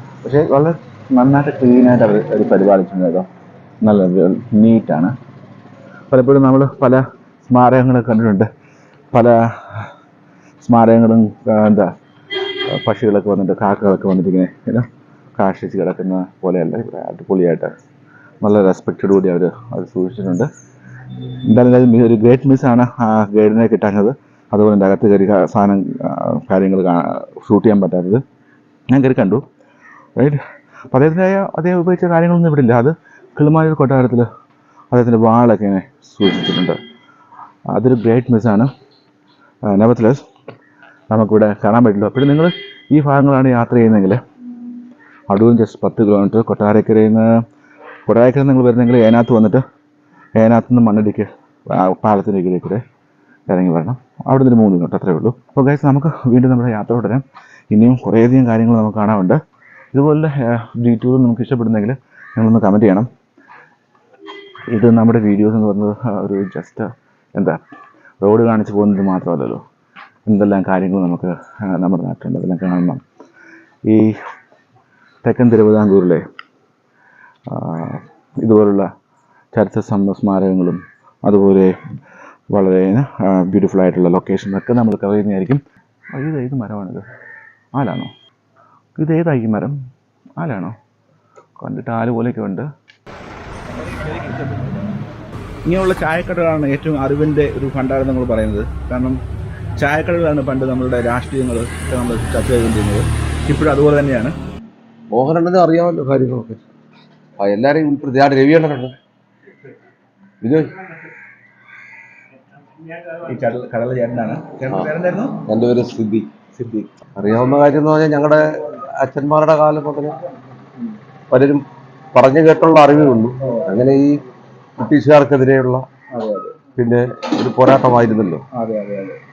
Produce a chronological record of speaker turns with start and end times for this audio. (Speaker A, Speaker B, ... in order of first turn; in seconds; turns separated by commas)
Speaker A: 0.2-3.2, Speaker A: 3.8-5.1, Speaker A: 6.1-8.5, Speaker A: 9.1-9.9, Speaker A: 10.6-11.9, Speaker A: 12.7-14.8, Speaker A: 15.4-17.7, Speaker A: 18.4-20.5, Speaker A: 21.5-28.2, Speaker A: 28.9-29.4, Speaker A: 30.9-34.3, Speaker A: 34.9-36.8, Speaker A: 37.7-38.7, Speaker A: 39.7-40.2, Speaker A: 41.1-44.2, Speaker A: 45.3-47.2, Speaker A: 48.1-49.6, Speaker A: 50.4-52.8, Speaker A: 53.5-59.4, Speaker A: 59.9-63.1, Speaker A: 64.7-67.6, Speaker A: 68.2-69.6, Speaker A: 70.3-73.0, Speaker A: 73.9-74.1, Speaker A: 75.2-76.2, Speaker A: 77.5-78.9, Speaker A: 79.5-81.7, Speaker A: 82.5-85.6, Speaker A: 86.1-87.0, Speaker A: 87.8-88.1, Speaker A: 89.0-89.8, Speaker A: 90.4-90.8, Speaker A: 91.6-92.7, Speaker A: 93.8-94.8, Speaker A: 95.7-99.2, Speaker A: 99.8-104.3, Speaker B: 105.1-106.6, Speaker B: 107.4-108.9, Speaker B: 110.4-110.8, Speaker A: 113.0-115.4, Speaker B: 115.5-116.3, Speaker A: 116.5-116.9, Speaker B: 117.2-120.2, Speaker B: 121.3-121.6, Speaker B: 122.1-124.2, Speaker A: 123.4-123.8, Speaker B: 124.8-125.8, Speaker A: 126.1-126.5, Speaker B: 126.8-128.4, Speaker A: 128.5-129.2